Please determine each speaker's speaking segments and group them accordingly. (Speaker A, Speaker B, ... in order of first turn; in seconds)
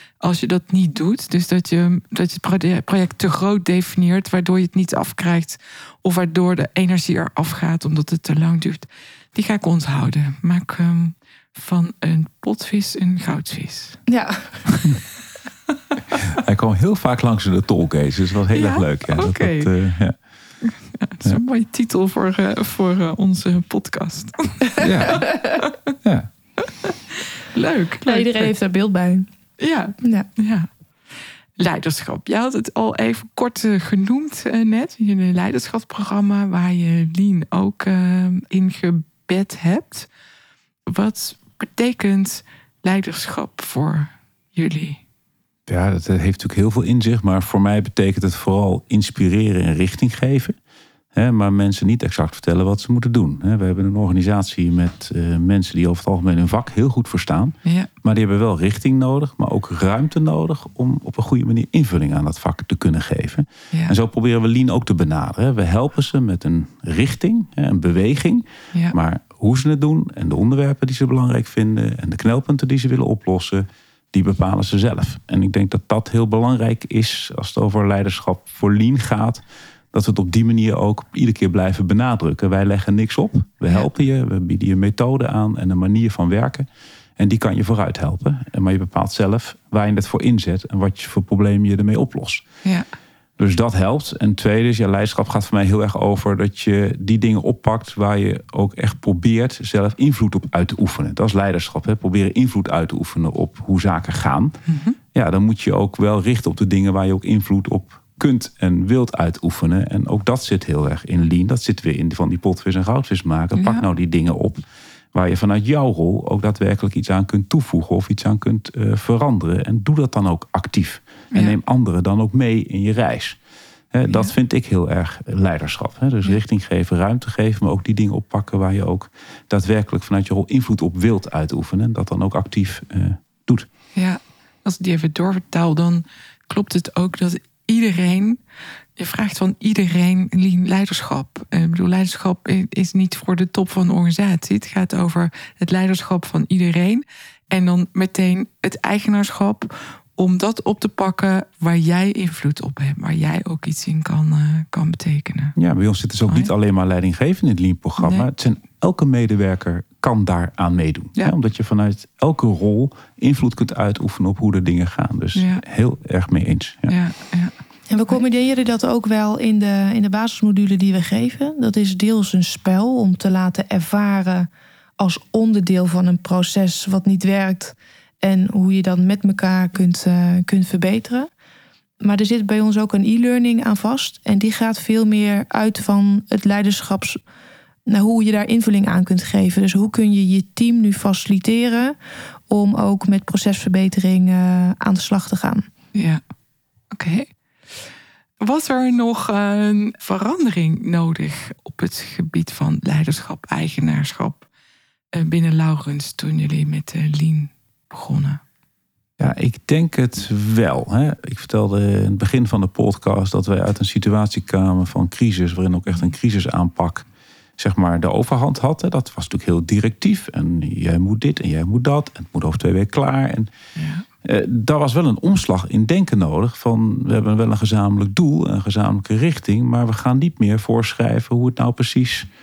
Speaker A: 0.2-14.0, 18.5-19.7, 20.6-25.8, 26.6-28.5, 29.6-30.7, 31.6-40.1, 40.9-45.0, 57.6-57.9, 104.7-105.0, 113.5-113.8, 124.1-124.3, 133.9-138.4, 139.0-155.6, 158.0-158.3, 165.3-165.6, 166.9-167.5, 195.9-196.2, 196.9-197.3, 198.4-204.4, 205.1-208.4, 223.8-224.1
Speaker B: 14.1-14.7, 25.2-25.6, 28.1-29.3, 30.0-30.3, 167.9-181.3, 182.0-187.2, 187.9-191.9, 192.5-195.7
Speaker C: 14.7-15.0, 16.3-20.2, 24.8-25.3, 26.0-26.3, 45.7-50.6, 51.1-86.7, 87.2-92.4, 93.4-104.6, 105.1-114.6, 115.1-123.4, 123.9-133.7, 155.6-167.0, 209.2-217.1, 217.6-223.5, 224.2-232.3